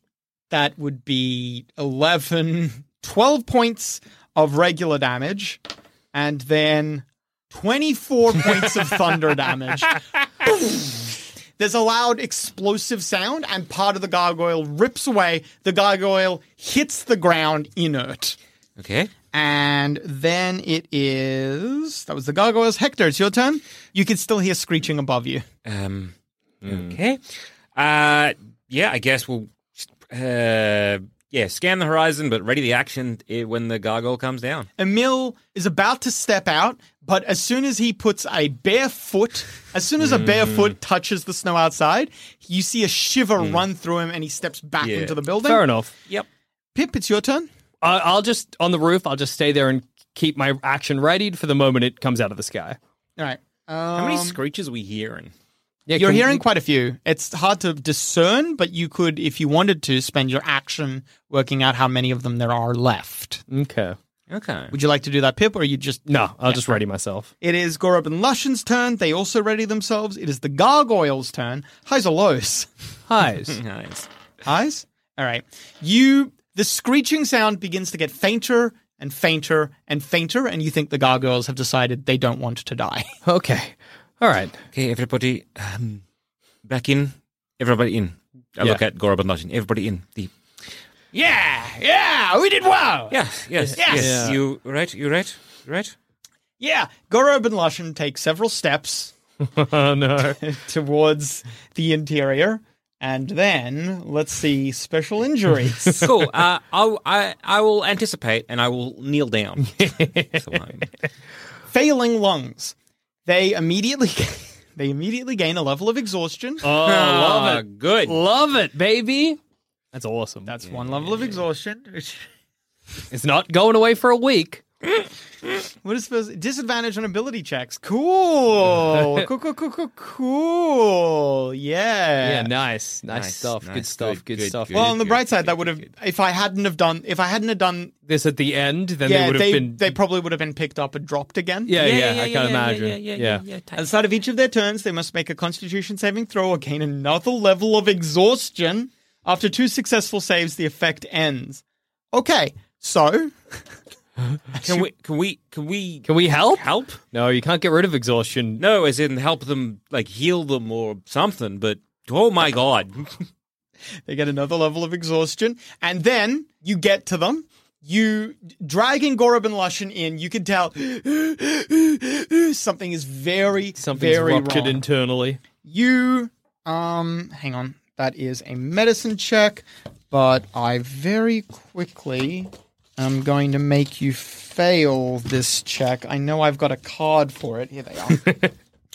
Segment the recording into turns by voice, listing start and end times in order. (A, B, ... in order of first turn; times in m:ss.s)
0:00.5-0:05.6 A
0:06.1-0:18.4 A
0:18.8-0:19.1 B
0:19.3-0:25.4 A
0:25.6-0:26.1 B
0:26.6-0:27.0 C
0:26.6-0:27.2 B
0:27.7-0:34.7 B
0:34.8-0:45.6 A
0:44.8-0:45.2 B
0:45.4-0:45.9 C
0:46.7-0:47.5 A
0:47.8-0:52.8 C
0:53.2-0:54.4 A
0:53.9-0:55.3 B
0:55.9-0:56.4 C
0:56.0-1:03.4 A
1:03.5-1:04.0 C
1:04.3-1:04.7 B
1:04.7-1:06.8 A
1:06.1-1:07.3 C
1:07.4-1:12.7 A
1:13.1-1:13.6 C
1:13.5-1:14.1 B
1:14.4-1:23.1 A
1:23.2-1:24.6 C
1:24.7-1:26.0 B
1:26.6-1:30.3 B
1:31.1-1:33.2 A
1:33.1-1:35.9 B
1:33.6-1:34.4 C
1:33.8-1:34.3 A
1:36.6-1:39.1 A
1:39.4-1:40.4 C
1:40.4-1:46.0 A
1:46.0-1:50.9 B
1:49.7-1:50.4 C
1:51.7-1:52.7 A
1:53.2-1:56.7 A
1:56.6-1:59.4 C
1:56.8-1:58.2 B
1:59.9-2:00.5 C
2:00.4-2:02.2 A
2:00.7-2:01.4 B
2:03.1-2:04.6 C
2:05.8-2:12.5 A
2:08.9-2:09.2 C
2:12.2-2:15.0 C
2:13.1-2:15.9 B
2:14.7-2:17.9 A
2:18.1-2:19.9 C
2:19.0-2:21.8 A
2:21.7-2:23.4 C
2:21.8-2:23.9 B
2:23.7-2:31.6 A
2:32.1-2:33.6 A
2:34.6-2:34.9 A
2:34.6-2:37.0 B
2:36.0-2:38.6 C
2:38.6-2:43.2 B
2:44.0-2:54.8 A
2:53.8-2:55.4 C
2:55.6-3:08.2 A
3:08.1-3:08.5 C